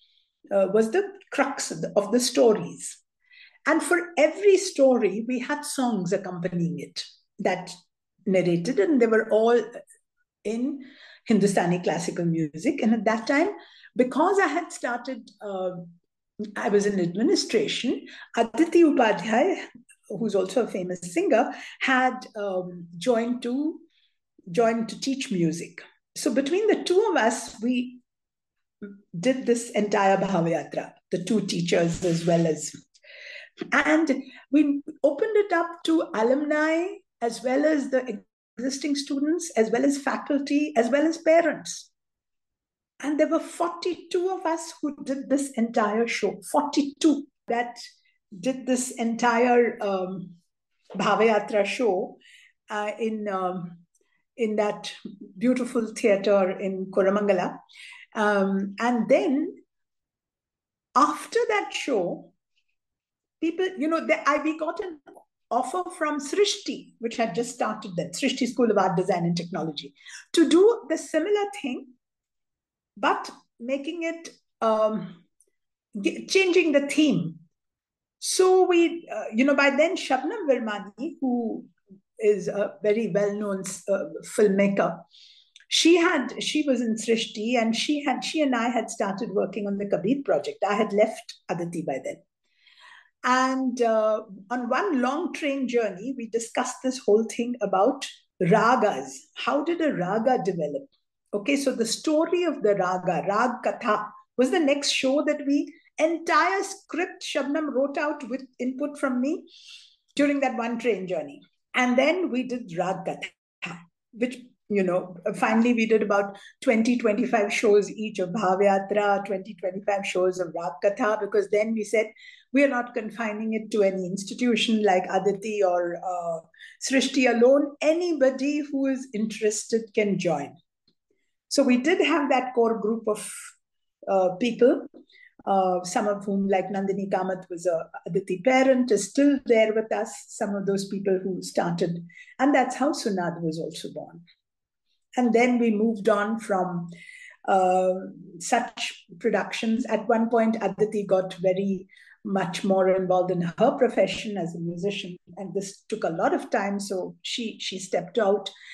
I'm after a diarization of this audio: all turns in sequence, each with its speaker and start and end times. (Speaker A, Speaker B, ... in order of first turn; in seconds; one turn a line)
Speaker A: 0.5-3.0
Speaker A: 3.7-7.7
Speaker A: 8.3-9.8
Speaker A: 10.4-15.9
Speaker A: 16.6-23.8
Speaker A: 24.5-28.0
Speaker A: 28.8-32.8
Speaker A: 33.7-41.9
Speaker A: 43.0-47.8
Speaker A: 48.3-50.4
Speaker A: 51.0-53.8
Speaker A: 54.4-57.6
Speaker A: 58.1-59.6
Speaker A: 61.0-62.3
Speaker A: 63.4-72.0
Speaker A: 73.0-75.2
Speaker A: 76.0-77.4
Speaker A: 78.2-85.0
Speaker A: 85.7-92.2
Speaker A: 93.2-109.5
Speaker A: 110.2-130.6
Speaker A: 131.5-133.5
Speaker A: 134.1-134.9
Speaker A: 135.5-144.2
Speaker A: 145.2-146.9
Speaker A: 147.5-158.5